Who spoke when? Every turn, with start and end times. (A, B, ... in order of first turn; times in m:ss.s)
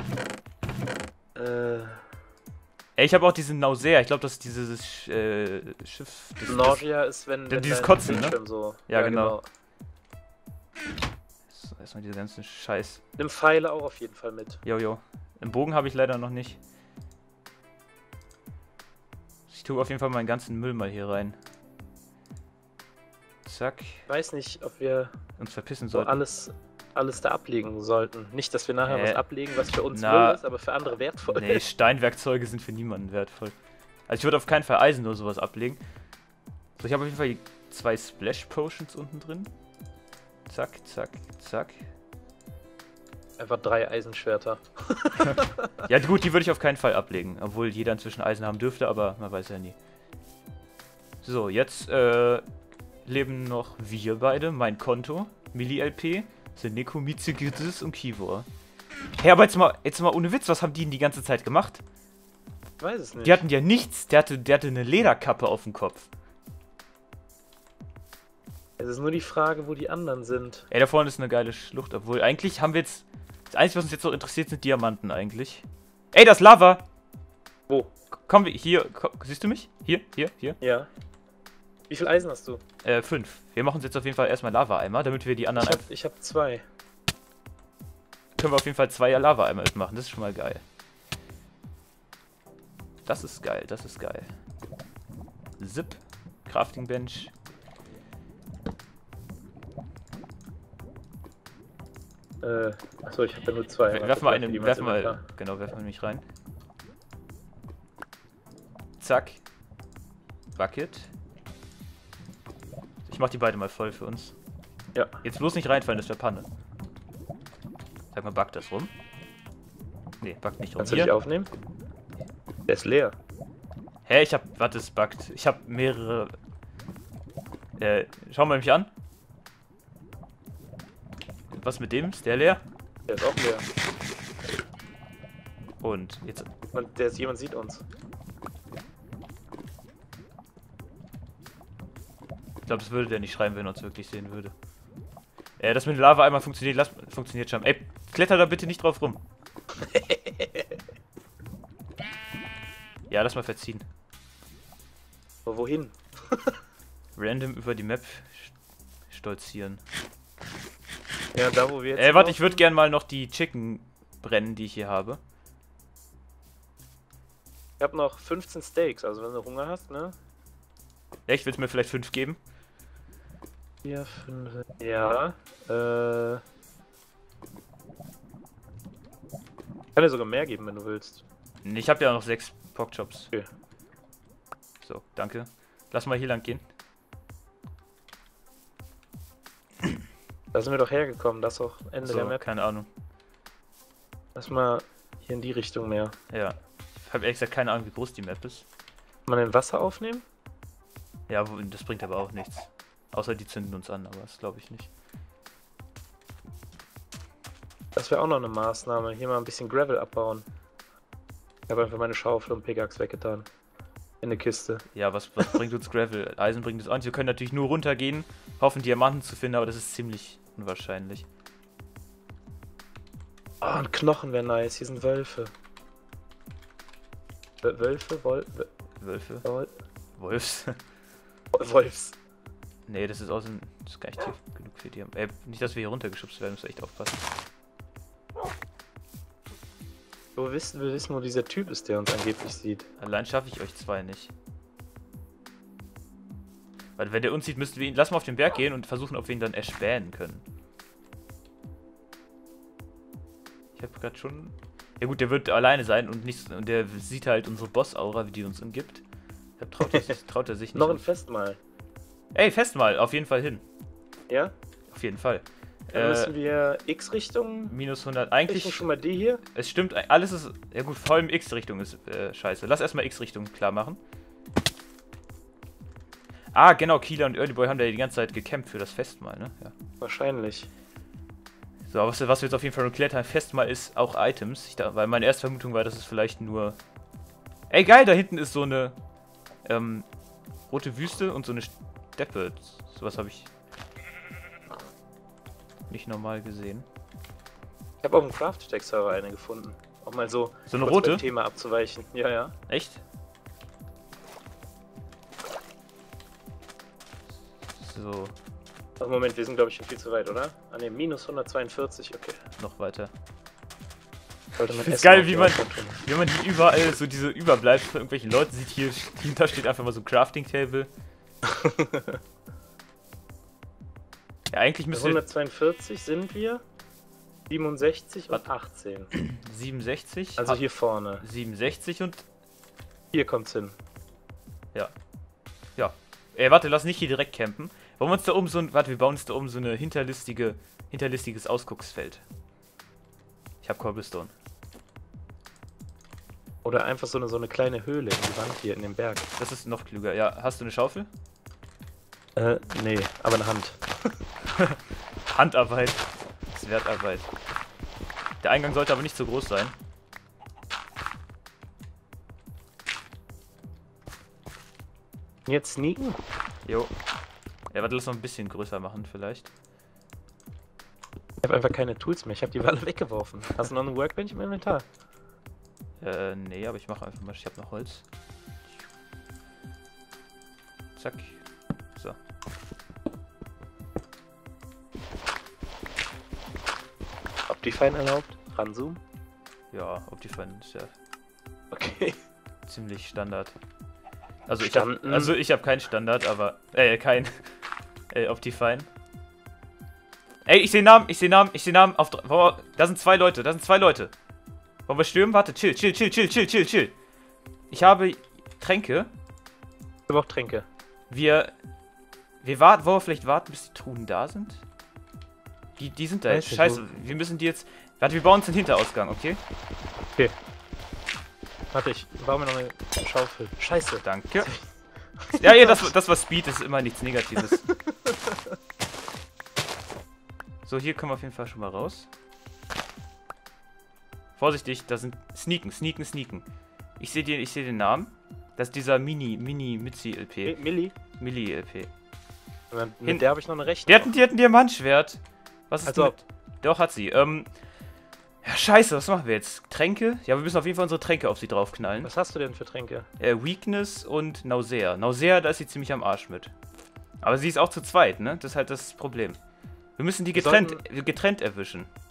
0:01.4-0:02.0 A
0:03.0-0:06.8 B
0:06.4-0:09.4 A
0:07.5-0:09.4 B
0:11.5-0:13.0 B
0:13.2-0:14.6 A
0:14.6-0:16.6 B
0:19.5-0:21.4 B
0:23.4-0:24.0 B
0:24.1-0:25.2 A
0:25.4-0:26.2 B
0:25.9-0:31.6 A
0:28.9-0:29.2 B
0:29.9-0:30.4 B
0:31.3-0:33.5 B
0:34.1-0:35.8 B
0:36.8-0:39.5 B
0:40.5-0:41.8 B
0:43.4-0:45.7 A
0:45.9-0:49.8 B
0:51.2-0:52.4 B
0:53.0-0:58.5 B
0:59.2-1:01.8 B
1:02.8-1:03.4 A
1:03.2-1:06.1 B
1:08.8-1:10.7 A
1:10.7-1:16.8 B
1:18.1-1:20.6 B
1:20.6-1:20.9 A
1:21.9-1:22.6 A
1:22.8-1:25.8 B
1:25.6-1:26.6 A
1:28.4-1:30.6 B
1:33.1-1:34.3 B
1:35.6-1:37.3 B
1:42.4-1:45.2 A
1:43.9-1:46.2 B
1:49.0-1:49.4 B
1:50.6-1:51.1 B
1:53.1-1:54.4 B
1:55.2-1:56.5 B
1:58.1-1:58.9 B
2:00.2-2:01.1 B
2:00.8-2:01.5 A
2:02.7-2:03.2 A
2:04.1-2:06.4 B
2:07.8-2:08.9 B
2:11.5-2:12.6 B
2:13.1-2:13.6 A
2:15.8-2:16.5 B
2:16.7-2:17.8 A
2:22.6-2:24.5 B
2:25.6-2:29.2 B
2:29.9-2:30.6 A
2:33.1-2:33.8 B
2:35.4-2:36.6 A
2:37.2-2:38.5 B
2:39.1-2:39.8 B
2:41.3-2:42.6 A
2:41.9-2:45.2 B
2:47.8-2:50.2 A
2:51.3-2:52.4 B
2:53.8-2:56.4 A
3:00.0-3:01.2 A
3:01.6-3:03.3 B
3:04.8-3:06.6 B
3:10.5-3:12.4 A
3:12.0-3:12.9 B
3:14.4-3:16.1 A
3:16.3-3:18.6 B
3:19.3-3:20.2 A
3:21.3-3:24.9 B
3:28.0-3:30.4 A
3:31.7-3:33.5 A
3:34.2-3:34.8 A
3:34.9-3:41.2 B
3:43.6-3:45.5 A
3:47.6-3:48.7 A
3:49.0-3:49.4 B
3:49.4-3:49.7 A
3:50.2-3:50.8 B
3:51.6-3:52.2 A
3:52.9-3:57.3 B
4:00.4-4:02.9 A
4:03.0-4:04.3 B
4:07.0-4:10.4 B
4:13.8-4:19.0 B
4:19.6-4:21.1 B
4:20.7-4:21.6 A
4:22.3-4:23.6 B
4:24.9-4:26.3 B
4:25.9-4:27.7 A
4:27.7-4:28.9 B
4:28.5-4:29.4 A
4:29.4-4:34.0 B
4:36.5-4:39.7 B
4:40.0-4:40.7 A
4:41.9-4:46.8 B
4:47.7-4:49.0 B
4:49.6-4:50.1 B
4:50.7-4:53.5 B
4:55.9-4:56.9 B
4:58.0-5:02.6 A
5:00.7-5:01.2 B
5:02.7-5:03.0 B
5:07.7-5:08.4 B
5:09.0-5:12.4 A
5:12.6-5:13.1 B
5:14.6-5:16.0 A
5:14.7-5:20.9 B
5:21.4-5:22.2 A
5:24.5-5:25.2 B
5:24.9-5:26.6 A
5:27.5-5:29.1 A
5:29.1-5:30.6 B
5:30.4-5:31.2 A
5:31.2-5:32.2 B
5:33.1-5:33.8 A
5:35.8-5:42.2 B
5:43.6-5:44.3 B
5:46.6-5:49.3 A
5:49.4-5:51.1 B
5:52.4-5:54.2 A
5:54.6-5:57.3 B
5:58.4-5:59.7 B
6:05.5-6:06.2 A
6:06.6-6:06.9 B
6:07.7-6:09.5 B
6:11.4-6:14.8 A
6:16.0-6:18.0 B
6:21.0-6:21.4 B
6:27.5-6:29.0 A
6:29.7-6:30.9 B
6:31.7-6:32.2 A
6:32.6-6:33.6 B
6:34.5-6:37.5 B
6:34.6-6:35.3 A
6:38.1-6:38.9 B
6:40.4-6:44.1 B
6:44.9-6:46.9 B
6:47.7-6:49.1 B
6:50.1-6:50.7 A
6:51.1-6:51.5 B
6:52.4-6:54.6 B
6:55.8-6:59.4 B
6:56.3-6:56.8 A
7:01.7-7:04.6 A
7:04.0-7:04.5 B
7:05.2-7:05.9 A
7:05.3-7:07.6 B
7:07.7-7:08.6 A
7:10.6-7:12.1 B
7:14.4-7:16.4 B
7:17.0-7:21.9 B
7:20.4-7:20.9 A
7:22.7-7:24.2 A
7:23.9-7:27.5 B
7:25.8-7:26.1 A
7:28.4-7:32.1 B
7:32.0-7:33.1 A
7:33.2-7:36.5 B
7:37.2-7:39.4 B
7:40.0-7:41.9 B
7:40.3-7:40.8 A